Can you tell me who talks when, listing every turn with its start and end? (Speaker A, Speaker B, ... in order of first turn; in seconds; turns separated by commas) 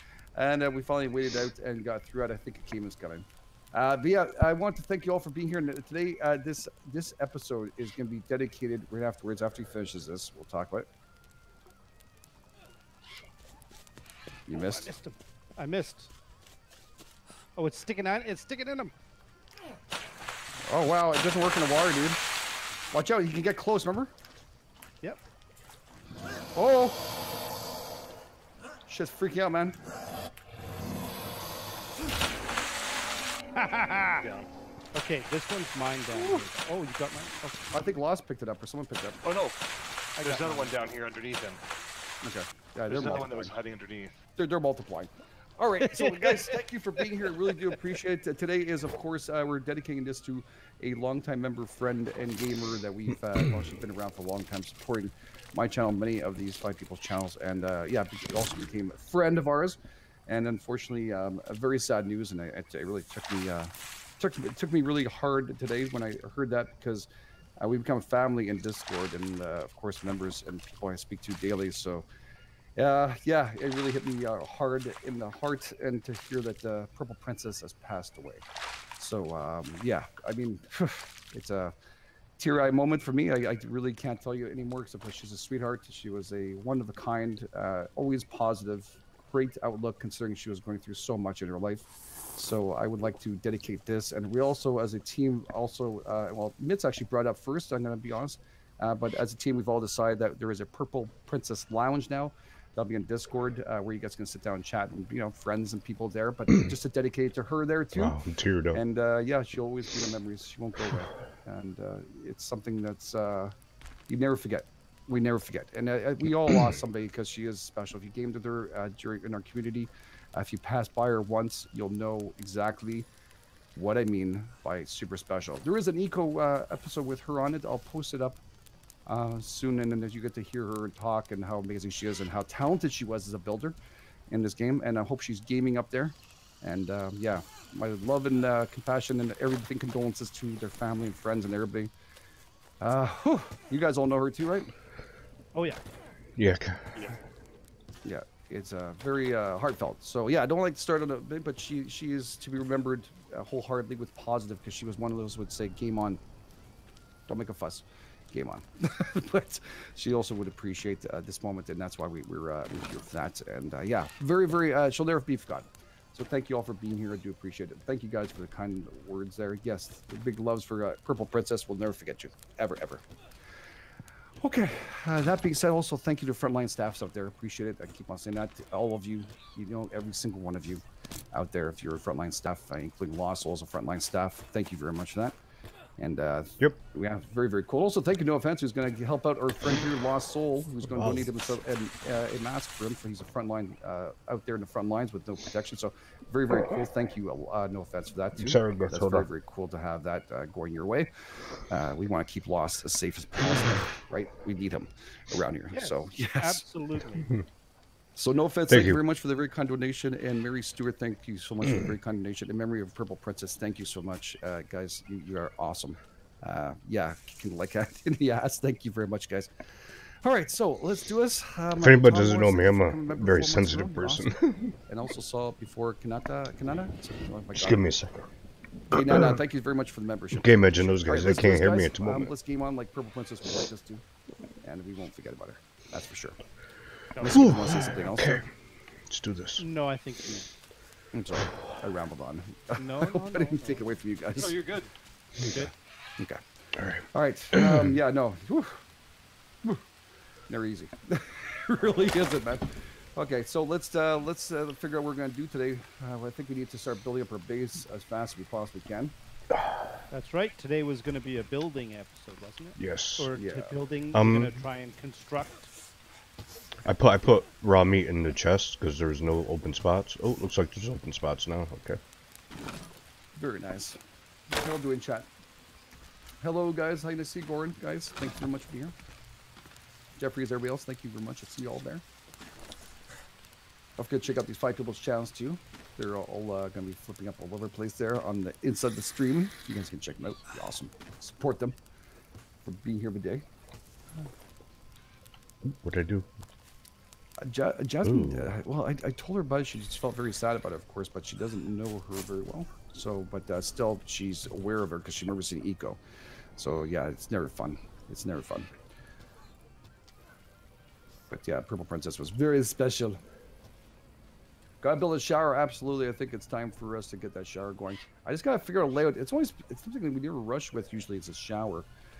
Speaker A: 0.3-10.9, Speaker A: 14.5-14.9, Speaker B: 14.5-16.1, Speaker B: 17.6-18.9, Speaker A: 20.6-22.2, Speaker A: 22.9-24.1, Speaker A: 26.5-27.0, Speaker A: 28.9-29.8, Speaker B: 33.5-34.2, Speaker C: 34.1-34.5, Speaker B: 34.9-37.7, Speaker A: 36.2-36.4, Speaker A: 37.7-39.2, Speaker C: 39.2-39.6, Speaker B: 40.2-40.8, Speaker C: 40.2-41.6, Speaker A: 42.2-43.5, Speaker C: 42.9-44.2, Speaker A: 44.4-67.1, Speaker B: 45.9-46.3, Speaker A: 67.6-72.0, Speaker A: 72.8-78.4, Speaker A: 79.0-81.7, Speaker A: 82.4-91.8, Speaker A: 92.3-108.2, Speaker D: 107.9-108.8, Speaker A: 108.7-113.5, Speaker A: 114.1-123.1, Speaker A: 123.7-128.4, Speaker A: 129.1-133.8, Speaker A: 134.3-141.9, Speaker A: 142.8-144.7, Speaker B: 145.5-145.8, Speaker D: 146.3-147.1, Speaker A: 148.0-156.2, Speaker A: 157.3-173.0, Speaker A: 174.4-185.3, Speaker A: 186.0-206.6, Speaker D: 190.8-191.5, Speaker D: 198.4-199.3, Speaker B: 205.7-207.3, Speaker A: 208.2-224.3, Speaker D: 208.7-209.0, Speaker D: 211.6-211.9, Speaker D: 221.7-224.8, Speaker A: 224.9-227.9, Speaker D: 227.5-228.3, Speaker D: 228.9-229.4, Speaker A: 228.9-234.0, Speaker D: 230.3-232.3, Speaker A: 234.6-236.4, Speaker B: 237.1-237.6, Speaker A: 237.2-238.4, Speaker D: 237.2-238.5, Speaker D: 239.1-239.6, Speaker B: 239.6-240.5, Speaker A: 241.1-244.6, Speaker B: 242.8-243.8, Speaker C: 244.3-244.9, Speaker A: 245.4-248.8, Speaker B: 245.4-245.7, Speaker D: 246.7-248.0, Speaker A: 250.5-259.1, Speaker D: 259.5-260.0, Speaker B: 260.1-265.7, Speaker D: 262.8-263.3, Speaker A: 263.3-263.7, Speaker D: 264.1-264.6, Speaker D: 266.8-272.0, Speaker A: 273.4-274.0, Speaker A: 274.5-275.3, Speaker A: 276.4-278.9, Speaker A: 280.1-282.0, Speaker A: 284.0-291.8, Speaker A: 292.6-293.4, Speaker D: 295.6-296.3, Speaker A: 297.4-306.0, Speaker D: 298.0-298.6, Speaker A: 306.6-308.8, Speaker A: 311.3-313.2, Speaker A: 314.8-321.9